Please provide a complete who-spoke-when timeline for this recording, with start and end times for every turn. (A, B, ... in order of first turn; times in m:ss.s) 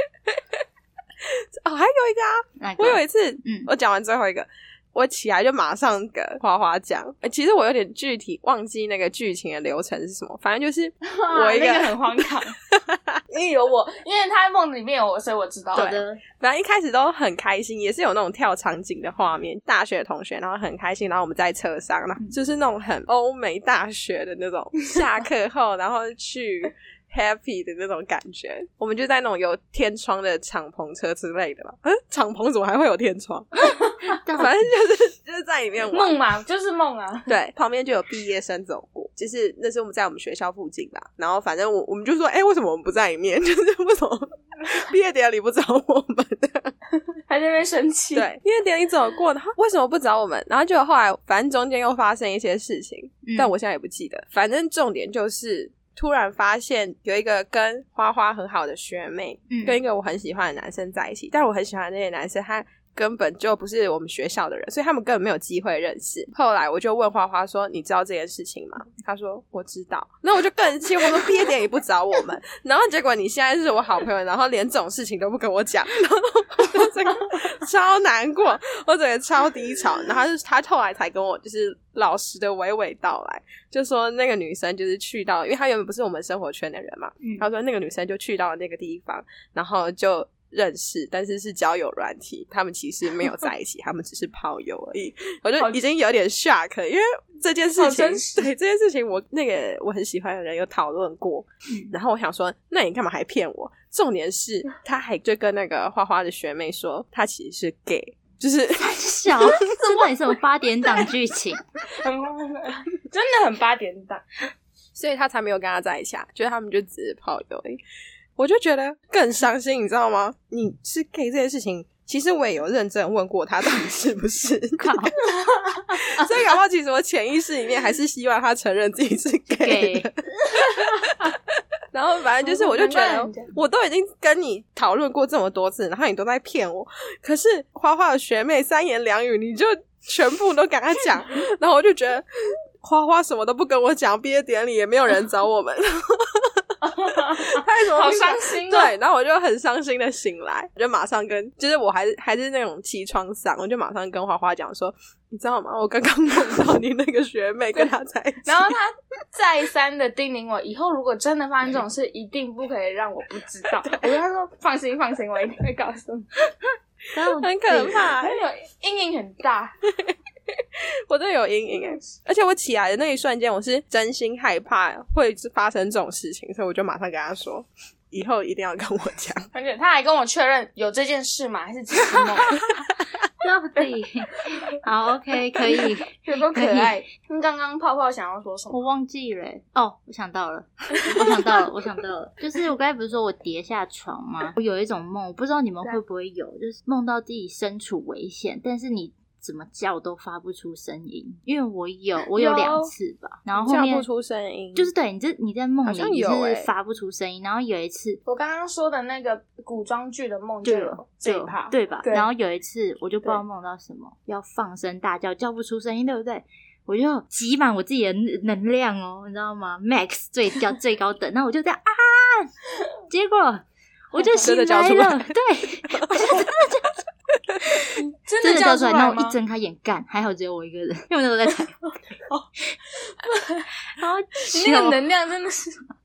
0:00.3-0:00.6 A
0:01.2-0:13.2 A
0:02.6-0:03.7 B
0:11.0-0:12.6 C
0:13.3-0:16.0 C
0:15.7-0:16.2 B
0:16.4-0:33.5 A
0:34.2-0:34.7 B
0:34.4-0:36.2 A
0:35.9-0:37.3 C
0:37.3-0:46.7 A
0:47.3-0:48.3 C
0:48.1-1:49.6 A
0:53.2-0:53.5 B
0:59.5-0:59.8 B
1:37.8-1:38.5 C
1:48.8-1:51.6 B
1:51.9-1:54.2 C
1:55.0-1:57.8 A
1:58.4-2:05.1 A
2:04.8-2:05.2 B
2:05.3-2:05.9 C
2:05.9-2:11.3 A
2:09.5-2:10.1 B
2:11.9-2:22.3 A
2:12.4-2:13.5 C
2:22.8-2:26.7 A
2:26.8-2:28.9 C
2:27.3-2:38.7 A
2:38.4-2:46.3 C
2:43.8-2:44.1 A
2:47.1-2:48.1 B
2:47.4-2:48.4 A
2:48.2-2:49.8 C
2:50.0-2:50.5 A
2:51.1-2:59.5 A
2:59.5-3:02.6 C
3:02.2-3:02.5 B
3:03.4-3:07.0 B
3:05.7-3:08.8 C
3:08.7-3:24.1 B
3:11.0-3:11.6 C
3:22.4-3:22.9 C
3:23.6-3:24.9 A
3:24.8-3:28.2 B
3:25.9-3:26.7 A
3:28.3-3:32.3 C
3:30.6-3:42.5 B
3:43.1-3:46.9 B
3:44.2-3:44.4 C
3:44.4-3:45.3 A
3:45.9-3:46.4 A
3:48.0-3:49.4 C
3:48.4-3:51.8 B
3:53.2-3:53.7 C
3:54.0-3:55.0 B
3:54.4-3:55.8 C